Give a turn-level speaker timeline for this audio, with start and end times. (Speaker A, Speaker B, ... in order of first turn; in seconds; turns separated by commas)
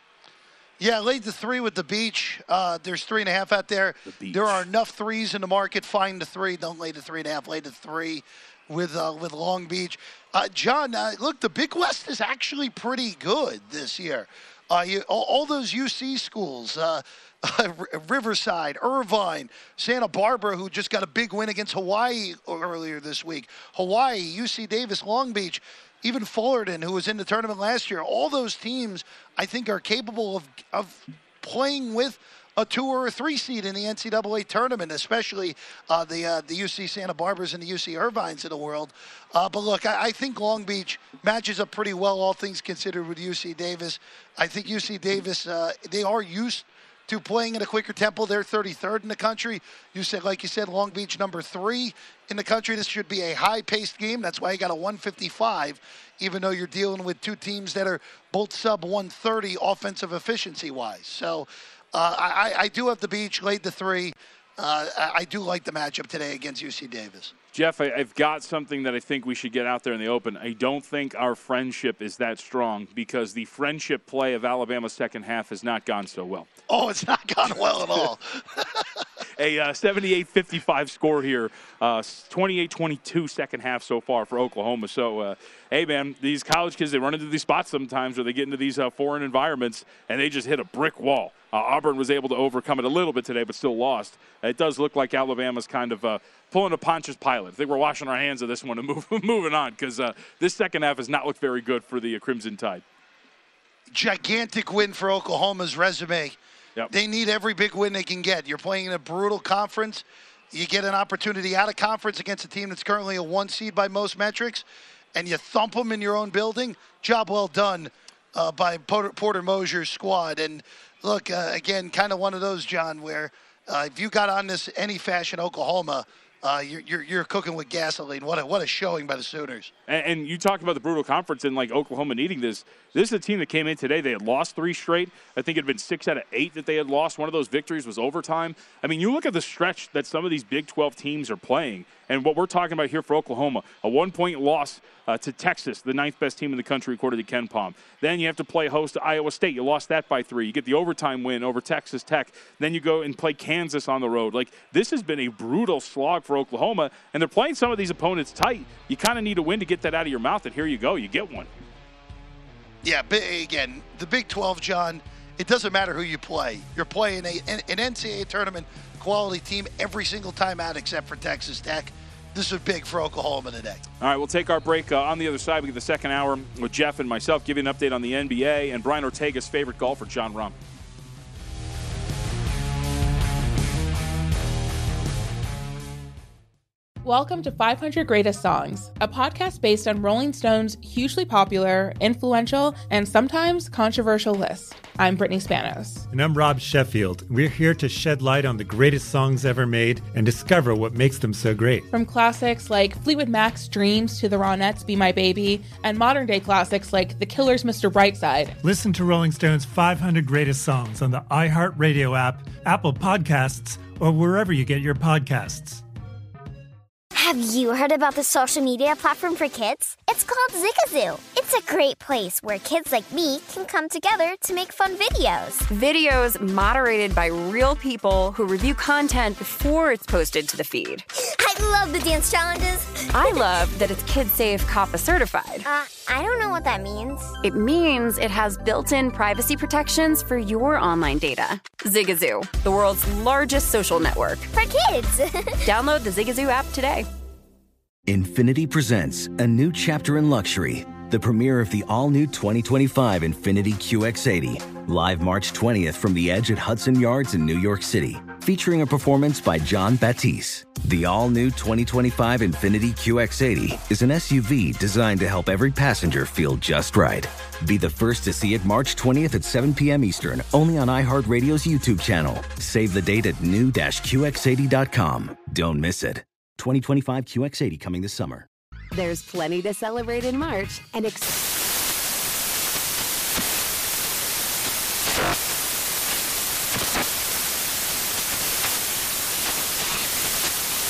Speaker A: 0.8-67.3, Speaker B: 4.1-4.6, Speaker B: 67.5-76.5, Speaker A: 76.7-79.0, Speaker B: 79.4-102.8, Speaker A: 103.9-106.4, Speaker A: 106.9-129.7, Speaker B: 129.9-161.5, Speaker A: 162.8-173.8, Speaker B: 174.0-180.6, Speaker C: 187.0-196.1, Speaker D: 196.1-201.9, Speaker C: 201.9-208.6, Speaker D: 208.6-215.8, Speaker E: 217.2-225.6, Speaker F: 225.7-231.1, Speaker E: 231.2-233.4, Speaker F: 233.1-235.7, Speaker E: 235.7-237.3, Speaker F: 237.4-244.5, Speaker E: 244.5-245.6, Speaker F: 245.7-247.1, Speaker G: 248.1-278.5, Speaker H: 278.9-281.4